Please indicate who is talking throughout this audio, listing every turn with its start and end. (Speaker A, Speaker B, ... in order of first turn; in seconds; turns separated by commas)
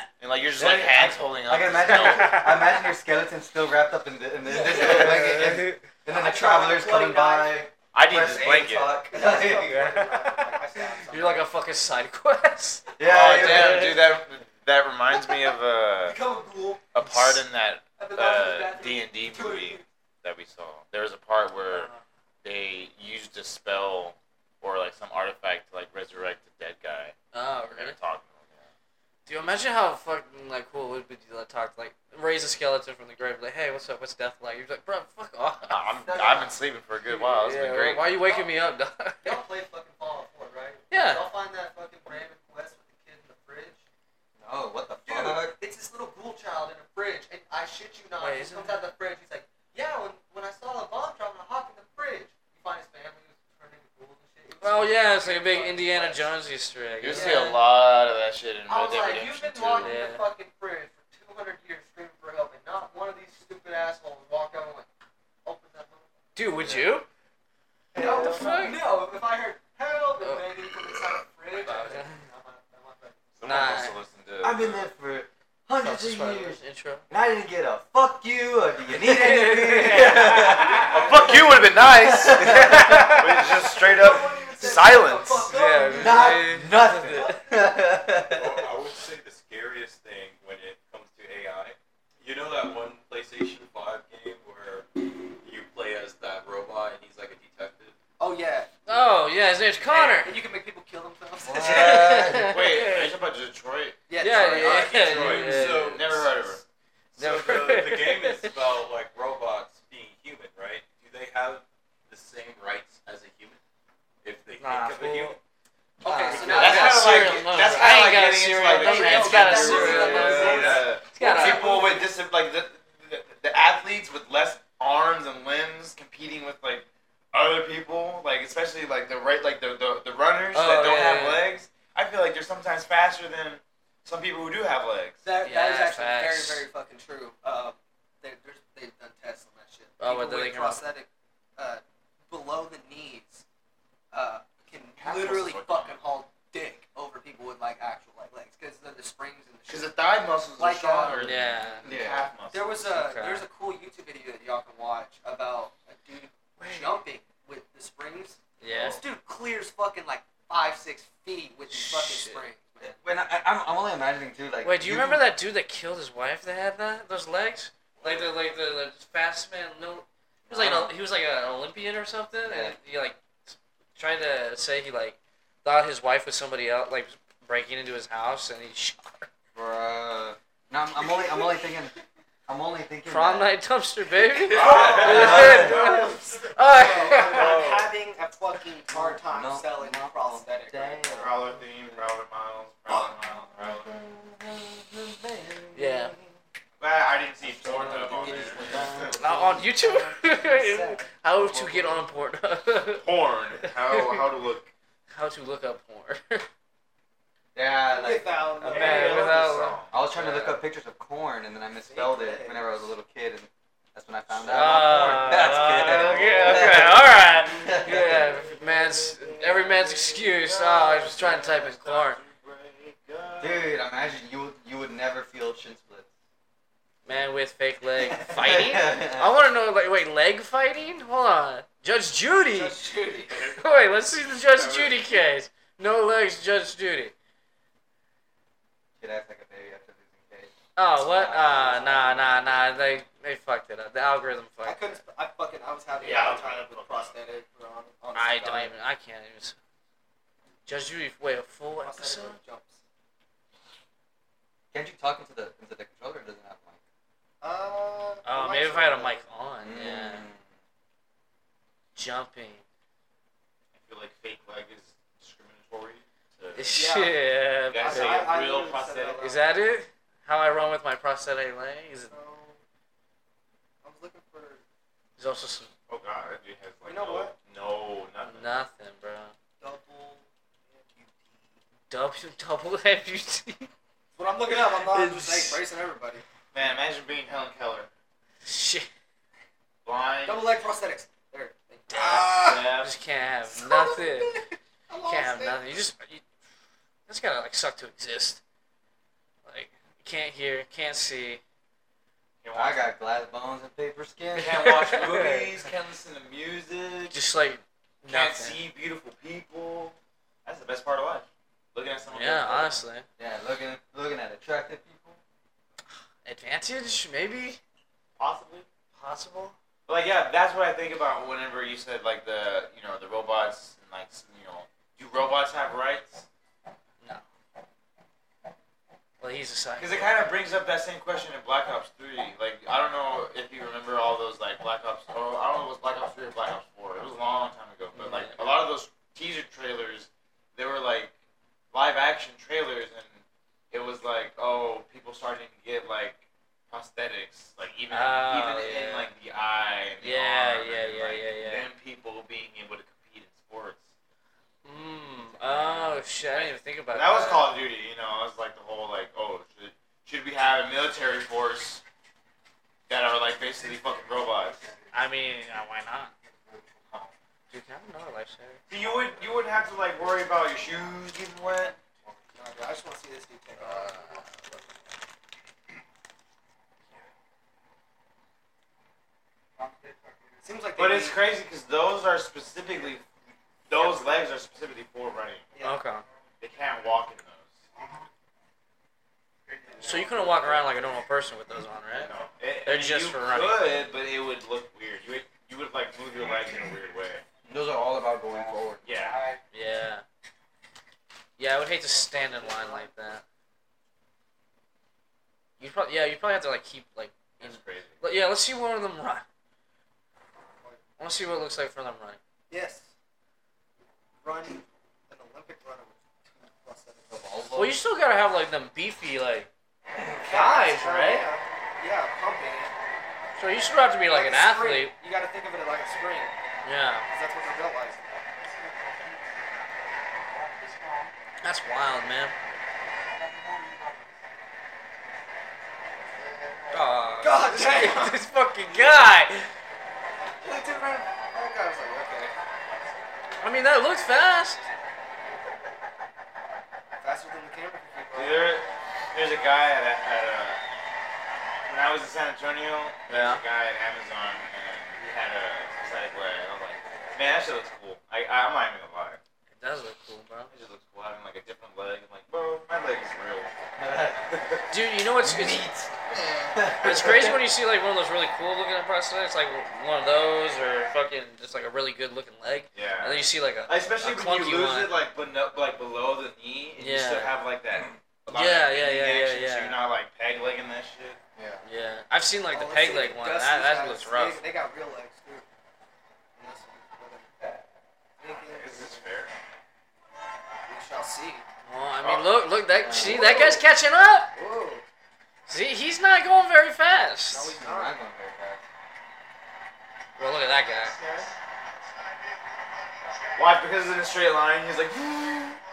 Speaker A: 0.2-2.4, Speaker B: 0.6-10.2, Speaker C: 1.9-2.6, Speaker D: 4.4-5.5, Speaker C: 4.7-5.8, Speaker D: 6.1-7.7, Speaker A: 7.9-9.0, Speaker D: 9.1-11.5, Speaker C: 9.7-10.5, Speaker C: 11.1-14.0, Speaker B: 13.0-14.0, Speaker A: 13.0-16.2, Speaker D: 16.0-16.9, Speaker A: 16.9-21.9, Speaker C: 17.0-17.4, Speaker D: 18.0-19.9, Speaker C: 21.7-22.0, Speaker A: 22.4-27.1, Speaker C: 27.3-28.0, Speaker A: 27.7-28.7, Speaker C: 29.2-35.8, Speaker A: 35.7-38.1, Speaker D: 36.0-36.5, Speaker C: 37.4-39.4, Speaker D: 38.1-38.6, Speaker D: 39.2-43.8, Speaker C: 40.9-41.2, Speaker B: 44.4-45.6, Speaker D: 45.0-56.4, Speaker C: 48.2-48.8, Speaker C: 54.6-57.6, Speaker A: 57.0-59.9, Speaker D: 57.1-57.6, Speaker D: 58.6-64.9, Speaker C: 59.8-60.2, Speaker D: 65.4-66.2, Speaker C: 66.3-67.1, Speaker A: 66.6-66.9, Speaker D: 67.9-73.2, Speaker C: 68.0-68.8, Speaker C: 70.2-70.5, Speaker C: 71.6-72.2, Speaker A: 73.3-74.9, Speaker C: 73.4-74.0, Speaker B: 74.4-83.3, Speaker C: 75.8-77.0, Speaker C: 79.0-80.9, Speaker A: 80.8-85.5, Speaker C: 82.7-83.2, Speaker D: 83.4-88.0, Speaker C: 85.5-87.4, Speaker B: 85.8-88.7, Speaker E: 88.2-98.0, Speaker D: 98.2-98.7, Speaker C: 98.9-100.3, Speaker D: 99.9-102.2, Speaker B: 101.4-102.6, Speaker C: 101.6-103.1, Speaker A: 102.3-104.0, Speaker D: 104.1-105.5, Speaker C: 104.2-106.0, Speaker E: 104.5-106.5, Speaker A: 105.0-106.6, Speaker E: 107.1-113.6, Speaker C: 107.2-108.5, Speaker E: 114.2-115.4, Speaker C: 114.6-115.4, Speaker D: 116.0-117.8, Speaker C: 116.0-121.7, Speaker E: 116.3-116.8, Speaker A: 116.4-135.2, Speaker D: 118.7-122.0, Speaker C: 130.5-131.5, Speaker D: 135.2-143.4, Speaker C: 135.4-136.6, Speaker C: 140.0-140.8, Speaker D: 144.1-149.9, Speaker A: 145.0-146.0, Speaker A: 149.7-152.8, Speaker D: 150.6-151.3, Speaker C: 151.1-151.8, Speaker B: 151.8-152.3, Speaker D: 152.5-163.0, Speaker C: 152.8-153.4, Speaker C: 156.6-156.9, Speaker C: 158.6-159.0, Speaker A: 158.7-159.0, Speaker C: 161.7-162.4, Speaker B: 162.8-165.2, Speaker C: 164.6-179.3, Speaker B: 170.4-170.9, Speaker B: 172.4-172.8, Speaker B: 179.5-181.9, Speaker D: 181.0-181.6, Speaker B: 182.5-183.6, Speaker C: 183.1-187.6, Speaker D: 184.5-191.3, Speaker A: 184.5-185.7, Speaker B: 184.6-186.2, Speaker E: 184.7-185.0, Speaker B: 187.3-187.6, Speaker B: 188.9-192.1, Speaker A: 191.2-193.9, Speaker B: 192.9-196.4, Speaker C: 195.7-196.1, Speaker A: 196.8-199.1, Speaker B: 197.4-199.9, Speaker D: 198.2-198.8, Speaker C: 199.2-203.0, Speaker D: 199.8-201.1, Speaker B: 201.3-202.0, Speaker A: 203.0-204.7, Speaker C: 203.6-204.2, Speaker C: 205.1-206.5, Speaker B: 207.5-208.4, Speaker D: 207.8-209.7, Speaker C: 208.6-210.5, Speaker A: 208.7-210.0, Speaker B: 209.9-218.3, Speaker D: 211.8-212.9, Speaker C: 214.5-222.2, Speaker A: 215.4-223.7, Speaker B: 223.4-226.1, Speaker C: 227.0-232.8, Speaker B: 228.0-229.3, Speaker D: 232.5-233.5, Speaker C: 233.5-237.1, Speaker A: 234.5-235.0, Speaker B: 239.0-242.7, Speaker C: 240.8-245.0, Speaker D: 244.6-248.7, Speaker A: 246.0-247.2, Speaker C: 248.1-249.6, Speaker C: 250.7-252.4, Speaker D: 251.8-252.8, Speaker B: 254.7-256.8, Speaker D: 257.4-259.2, Speaker C: 258.2-260.3, Speaker B: 259.6-260.5, Speaker C: 261.9-262.6, Speaker A: 263.7-266.8, Speaker C: 266.5-268.3, Speaker D: 266.7-267.2, Speaker A: 267.7-269.2, Speaker D: 267.8-269.5, Speaker C: 269.2-272.1, Speaker D: 272.1-272.6, Speaker D: 273.8-274.6, Speaker C: 275.2-275.7, Speaker A: 275.9-278.6, Speaker D: 276.8-277.3, Speaker C: 278.2-279.3, Speaker D: 279.6-281.6, Speaker C: 281.9-283.7, Speaker D: 284.1-286.2, Speaker C: 284.5-285.6, Speaker A: 286.5-287.9, Speaker C: 288.4-288.9, Speaker A: 289.8-290.5, Speaker D: 290.2-292.8, Speaker C: 291.9-294.4, Speaker A: 292.2-292.9, Speaker D: 293.5-295.6, Speaker C: 295.0-296.2, Speaker C: 297.1-298.4, Speaker C: 299.4-301.4, Speaker A: 302.4-302.9, Speaker B: 302.5-305.1, Speaker A: 304.3-307.2, Speaker C: 304.6-305.5, Speaker C: 307.1-308.6, Speaker A: 308.1-312.8, Speaker C: 312.1-313.1, Speaker B: 313.2-315.2, Speaker C: 316.2-317.6, Speaker A: 318.2-318.7, Speaker C: 318.9-319.6, Speaker A: 319.9-326.2, Speaker C: 329.2-330.1, Speaker A: 329.8-341.1, Speaker C: 337.9-338.6, Speaker A: 341.7-353.9, Speaker C: 347.9-349.1, Speaker C: 350.0-351.7, Speaker C: 354.6-357.5, Speaker A: 355.4-361.8, Speaker A: 362.9-364.6, Speaker C: 364.9-366.1, Speaker C: 367.5-368.6, Speaker A: 368.7-371.8, Speaker D: 372.3-374.3, Speaker C: 373.6-374.7, Speaker D: 380.4-381.2, Speaker A: 380.8-383.1, Speaker A: 383.7-385.5, Speaker D: 385.5-385.8, Speaker C: 385.6-386.0, Speaker A: 386.4-387.6, Speaker C: 389.8-392.1, Speaker A: 390.1-390.4, Speaker A: 391.9-397.2, Speaker C: 392.6-393.7, Speaker B: 397.4-399.2, Speaker A: 398.8-399.2, Speaker C: 399.5-400.0, Speaker C: 401.4-403.2, Speaker D: 401.8-403.1, Speaker C: 405.6-409.2, Speaker A: 407.4-408.2, Speaker C: 411.0-412.2, Speaker D: 412.5-412.9, Speaker D: 414.2-417.4, Speaker B: 417.1-417.8, Speaker C: 417.5-419.5, Speaker D: 420.1-422.8, Speaker C: 420.2-421.3, Speaker C: 423.4-424.9, Speaker D: 424.1-426.4, Speaker C: 426.6-427.1, Speaker D: 427.1-428.3, Speaker C: 431.4-432.3, Speaker D: 436.2-436.6, Speaker C: 436.7-439.5, Speaker D: 437.2-438.2, Speaker D: 440.4-442.3, Speaker C: 443.4-444.6, Speaker D: 446.9-448.5, Speaker A: 448.1-450.6, Speaker A: 451.7-459.2, Speaker C: 453.1-453.4, Speaker C: 459.5-460.5, Speaker A: 460.5-463.5, Speaker B: 463.8-465.9, Speaker A: 464.3-464.6, Speaker C: 464.7-465.7, Speaker B: 466.4-467.4, Speaker C: 466.8-474.9, Speaker A: 472.7-481.2, Speaker C: 476.8-477.3, Speaker C: 478.3-479.8, Speaker B: 481.4-481.6, Speaker C: 481.6-484.4, Speaker D: 482.5-485.5, Speaker D: 486.4-487.6, Speaker D: 488.2-489.0, Speaker A: 488.4-489.3, Speaker D: 490.7-491.4, Speaker C: 491.6-494.3, Speaker A: 492.0-492.4, Speaker B: 492.7-493.6, Speaker D: 492.9-493.6, Speaker D: 494.3-494.9, Speaker C: 495.5-497.6, Speaker D: 497.3-498.0, Speaker B: 497.6-498.6, Speaker C: 500.2-501.0, Speaker D: 500.9-501.3, Speaker A: 503.3-505.6